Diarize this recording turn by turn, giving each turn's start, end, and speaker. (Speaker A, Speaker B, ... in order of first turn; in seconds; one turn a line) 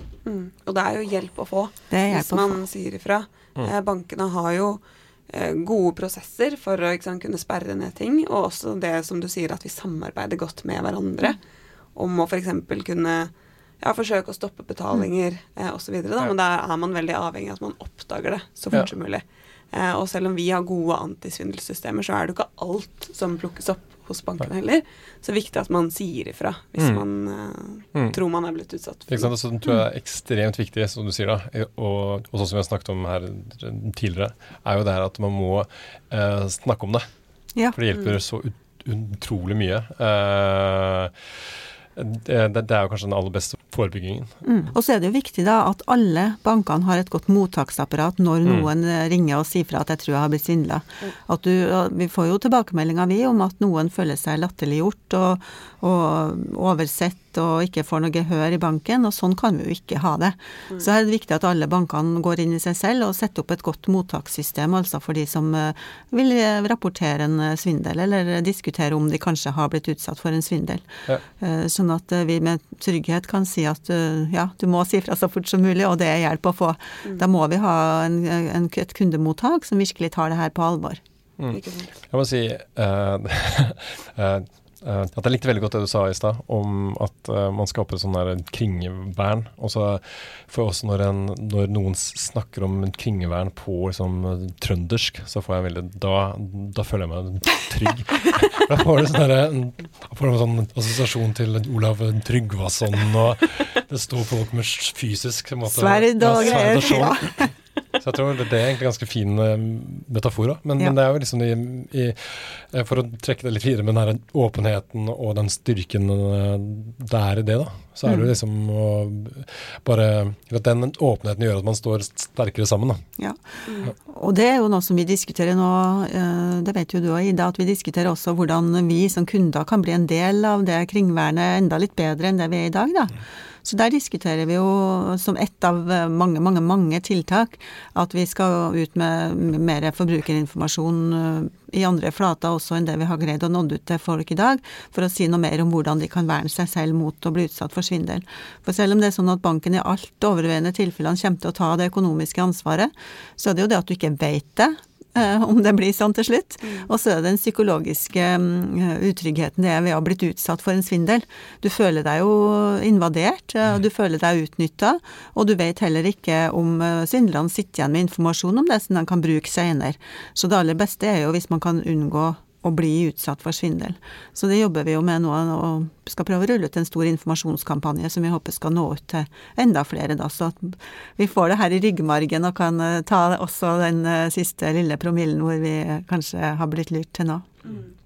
Speaker A: 0.2-11.4
Speaker B: 1.9-2.6
Speaker A: 11.9-29.3
Speaker C: 29.1-37.0
Speaker C: 37.7-41.1
Speaker C: 42.0-44.3
Speaker B: 44.4-81.0
Speaker C: 81.4-123.0
Speaker A: 81.5-81.9
Speaker B: 105.7-107.5
Speaker A: 106.4-106.7
Speaker B: 118.0-118.3
Speaker B: 123.2-187.5
Speaker A: 123.7-123.9
Speaker A: 156.6-156.9
Speaker A: 187.6-187.9